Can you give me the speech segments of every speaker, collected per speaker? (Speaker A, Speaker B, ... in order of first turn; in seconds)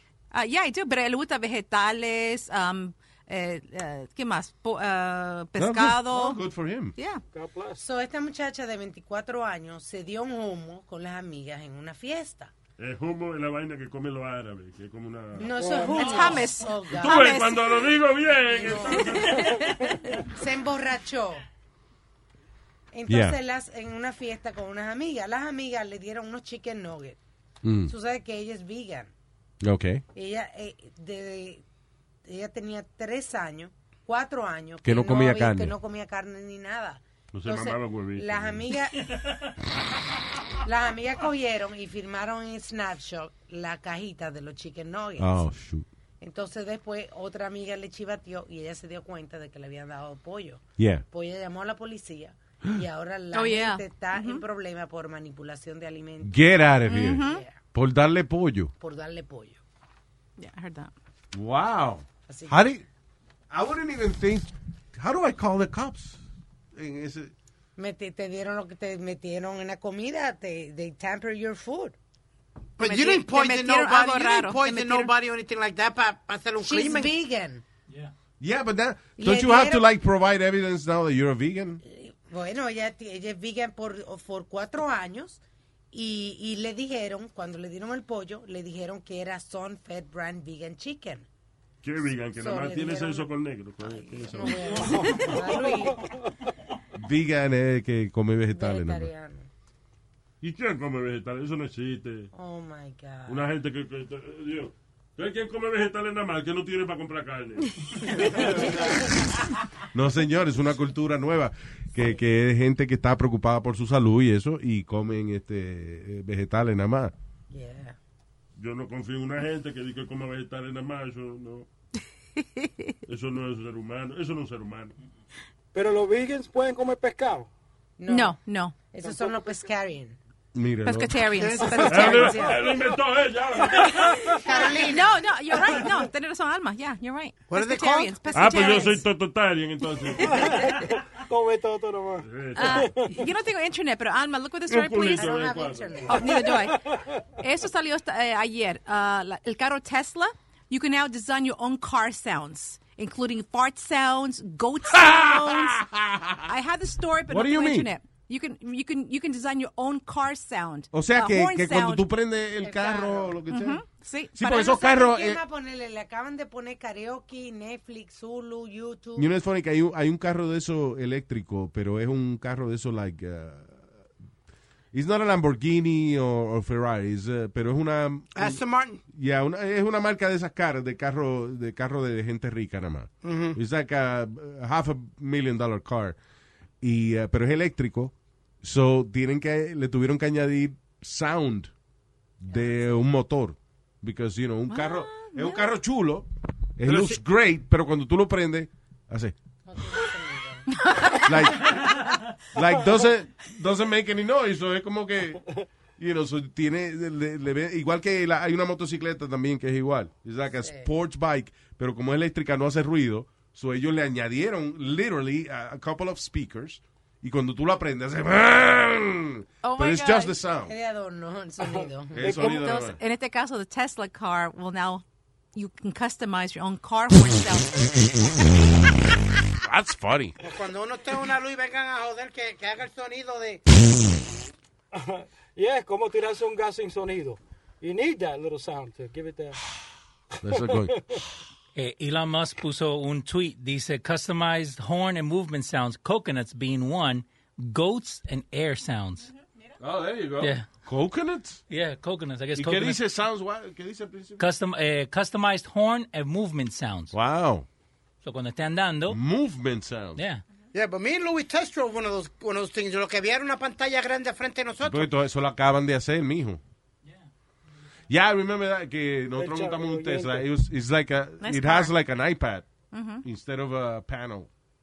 Speaker A: 0.3-6.4, 7.0-7.2, 15.8-17.9, 19.0-20.2, 53.3-54.4, 56.9-57.4, 60.4-60.9, 72.8-75.1, 122.4-122.9, 128.1-128.8, 130.8-132.5, 134.8-139.0, 142.6-145.5, 146.1-146.8, 147.4-155.8, 156.5-162.1, 163.5-164.8, 194.7-195.7, 200.8-201.4, 219.6-220.3, 222.2-228.3, 271.4-271.9, 272.9-273.2
Speaker B: 5.6-7.0, 23.1-23.4, 27.6-27.9, 29.6-30.0, 34.8-35.8, 45.2-45.9, 50.8-51.1, 56.2-58.7, 61.3-62.8, 63.5-66.2, 66.8-67.3, 78.4-81.8, 97.0-99.1, 109.9-117.1, 130.5-131.2, 154.9-156.5, 157.3-157.9, 160.9-163.8, 164.3-165.4, 169.2-173.9, 174.9-186.2, 186.8-191.7, 192.4-199.3, 201.2-202.0, 202.5-205.4, 206.0-220.7, 222.2-223.0, 229.6-230.4, 240.4-241.0, 249.8-251.6, 252.6-254.5, 257.1-257.7, 259.1-260.2, 264.8-266.6, 268.1-272.7, 273.2-274.5
Speaker C: 7.3-7.8, 15.5-16.4, 95.0-95.9, 125.7-127.5, 129.1-129.3, 140.3-143.1, 222.2-222.8, 234.9-239.6, 269.4-270.5
Speaker D: 7.8-12.5, 15.4-17.4, 18.5-19.3, 20.1-21.4, 22.9-27.2, 27.9-29.1, 30.1-31.6, 32.2-39.1, 40.6-45.5, 46.2-57.6, 58.8-59.6, 62.3-62.6, 67.8-72.0, 76.6-77.6, 79.2-79.9, 81.8-85.4, 85.9-91.3, 92.4-93.3, 93.8-96.0, 98.5-99.5, 102.3-103.5, 117.5-118.0, 128.0-128.4, 128.9-130.2, 131.6-132.6, 134.4-135.2, 145.1-146.4, 162.6-163.3, 164.6-169.3, 199.7-200.8, 210.5-210.9, 220.7-222.5
Speaker E: 12.8-15.5, 17.0-19.7, 37.3-38.6, 91.8-95.0, 100.4-102.3, 103.3-108.7, 118.6-121.7, 123.1-124.9, 131.9-134.3, 138.3-140.6, 142.2-142.9, 144.7-146.2
Speaker F: 72.8-77.1, 131.4-132.5, 134.5-135.0, 137.5-138.8, 178.4-179.0, 183.2-183.6, 230.4-233.6, 260.7-265.1
Speaker G: 241.8-249.3, 250.4-250.7, 251.7-253.0, 254.4-257.1, 258.2-259.2, 260.2-260.4